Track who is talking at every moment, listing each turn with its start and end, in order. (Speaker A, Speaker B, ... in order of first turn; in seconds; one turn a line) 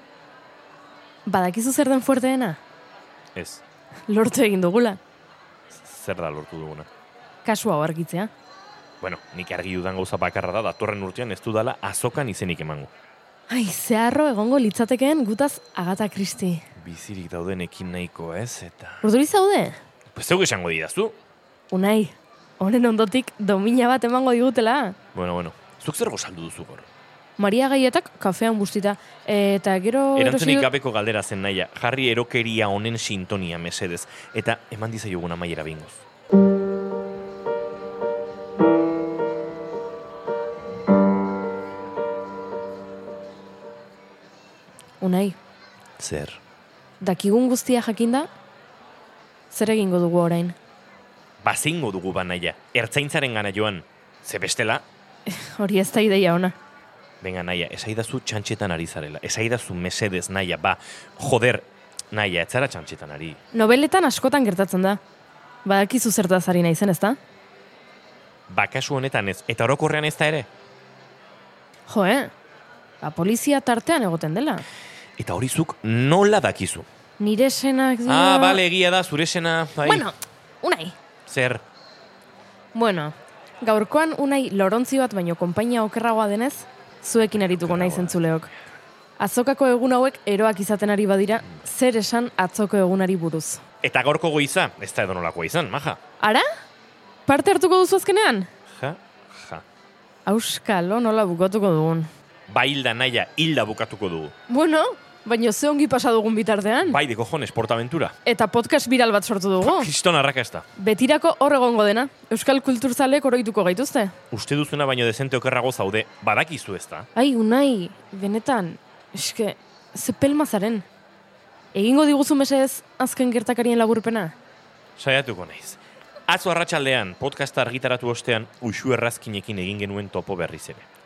Speaker A: 1.2-2.6
Speaker B: 3.3-3.6
Speaker A: 4.1-5.0
Speaker B: 5.7-6.9
Speaker A: 7.4-8.3
Speaker B: 9.0-12.9
Speaker A: 13.5-16.6
Speaker B: 16.8-19.0
Speaker A: 19.0-19.8
Speaker B: 20.1-21.1
Speaker A: 21.7-24.9
Speaker B: 25.1-26.9
Speaker A: 27.4-30.7
Speaker B: 30.1-36.0
Speaker A: 45.0-45.4
Speaker B: 46.0-46.4
Speaker A: 47.0-48.3
Speaker A: 49.5-50.5
Speaker B: 51.4-54.8
Speaker A: 55.3-56.5
Speaker B: 57.2-63.4
Speaker A: 63.5-65.0
Speaker A: 65.6-67.2
Speaker B: 68.5-70.5
Speaker A: 71.9-72.3
Speaker A: 73.0-74.6
Speaker B: 75.2-76.8
Speaker A: 77.2-78.6
Speaker B: 78.1-80.0
Speaker A: 79.8-80.9
Speaker B: 81.3-81.6
Speaker A: 82.7-88.5
Speaker B: 87.5-88.2
Speaker A: 89.2-93.6
Speaker B: 93.8-96.0
Speaker A: 97.2-98.5
Speaker B: 98.7-99.6
Speaker A: 100.2-102.1
Speaker B: 102.5-104.3
Speaker A: 104.5-107.0
Speaker B: 106.8-108.1
Speaker A: 108.2-109.9
Speaker B: 109.6-110.6
Speaker A: 110.8-114.1
Speaker B: 114.3-117.1
Speaker A: 117.2-120.8
Speaker A: 121.7-124.3
Speaker B: 125.0-130.8